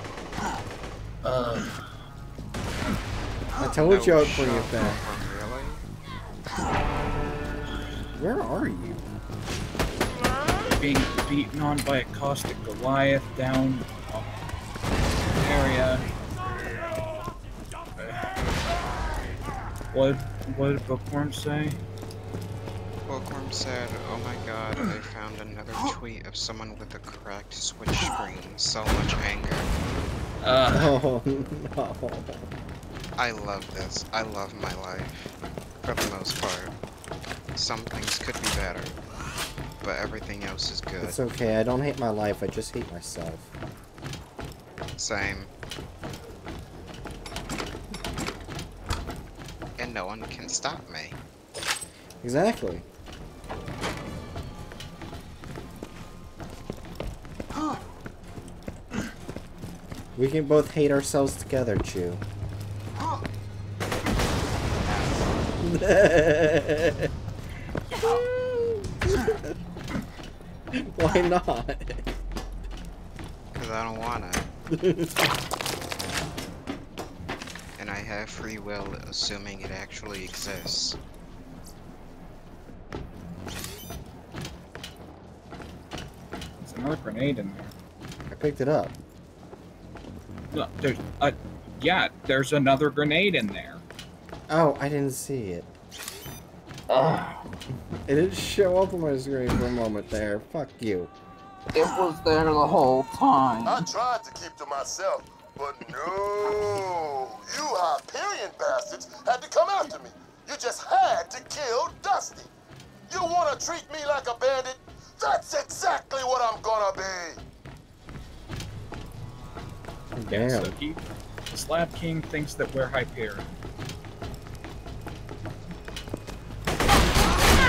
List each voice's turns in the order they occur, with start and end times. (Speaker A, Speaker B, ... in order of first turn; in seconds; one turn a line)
Speaker A: 1.2-1.8
Speaker B: 3.6-5.0
Speaker C: 3.8-5.8
Speaker B: 8.2-9.1
Speaker A: 10.8-14.4
Speaker A: 15.3-16.1
Speaker A: 18.0-18.3
Speaker A: 19.9-21.8
Speaker C: 23.1-29.7
Speaker A: 30.4-30.9
Speaker B: 30.7-32.5
Speaker C: 33.2-36.7
Speaker C: 37.5-39.0
Speaker C: 39.8-41.2
Speaker B: 41.0-43.5
Speaker C: 45.0-45.5
Speaker C: 49.8-51.2
Speaker B: 52.2-52.8
Speaker B: 60.1-62.2
Speaker B: 65.6-67.1
Speaker B: 68.0-69.5
Speaker B: 70.7-72.0
Speaker C: 73.5-74.5
Speaker B: 74.7-75.3
Speaker C: 77.8-81.0
Speaker A: 86.6-87.7
Speaker B: 88.3-88.9
Speaker A: 90.5-93.8
Speaker B: 94.5-95.7
Speaker A: 96.9-97.4
Speaker B: 98.1-101.1
Speaker A: 101.7-103.8
Speaker D: 103.6-112.5
Speaker D: 113.1-117.4
Speaker B: 120.1-120.7
Speaker A: 120.3-123.5